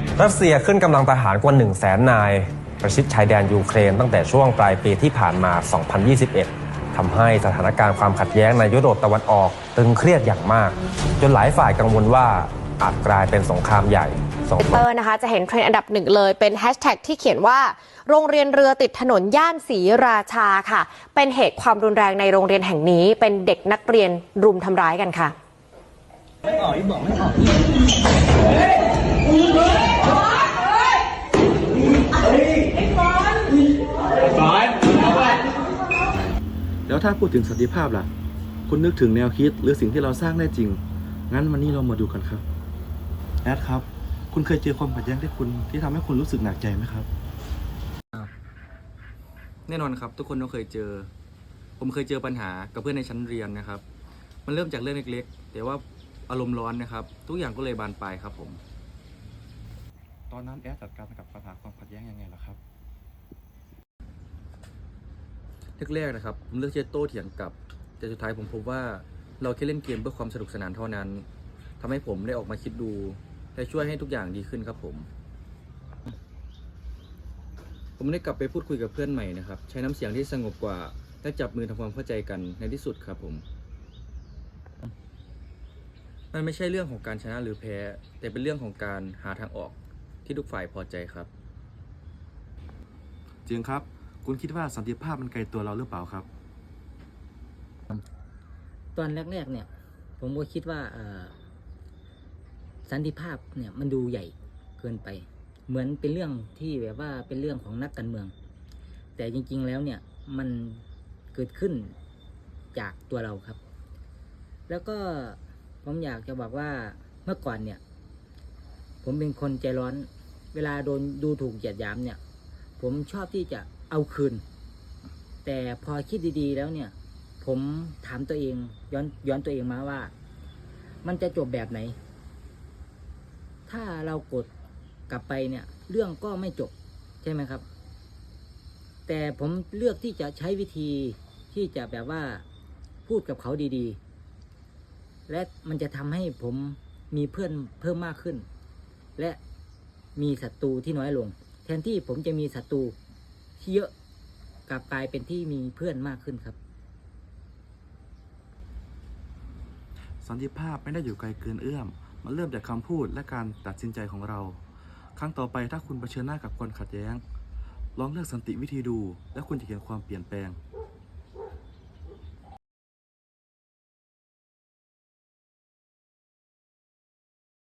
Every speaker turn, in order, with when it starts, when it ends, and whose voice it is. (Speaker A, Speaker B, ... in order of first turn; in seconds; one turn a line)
Speaker A: 0.2-14.8
Speaker B: 14.6-25.3
Speaker C: 36.1-38.1
Speaker C: 38.7-42.4
Speaker C: 43.4-47.1
Speaker D: 49.7-51.1
Speaker D: 51.8-53.8
Speaker D: 54.5-58.6
Speaker C: 60.3-62.6
Speaker D: 65.8-71.2
Speaker D: 71.8-75.1
Speaker D: 78.0-83.4
Speaker D: 86.3-91.3
Speaker C: 93.5-96.3
Speaker E: 98.9-99.7
Speaker E: 100.2-101.3
Speaker E: 102.9-108.3
Speaker E: 109.2-111.9
Speaker E: 112.7-113.6
Speaker E: 114.7-117.8
Speaker E: 119.0-122.2
Speaker E: 122.8-124.4
Speaker E: 125.4-130.1
Speaker E: 131.0-131.9
Speaker E: 133.7-134.5
Speaker E: 135.1-137.6
Speaker E: 139.1-142.4
Speaker E: 143.1-144.0
Speaker E: 145.3-148.4
Speaker E: 150.2-152.9
Speaker E: 153.6-153.9
Speaker E: 154.7-156.6
Speaker C: 160.2-164.6
Speaker C: 165.2-167.2
Speaker C: 167.9-170.6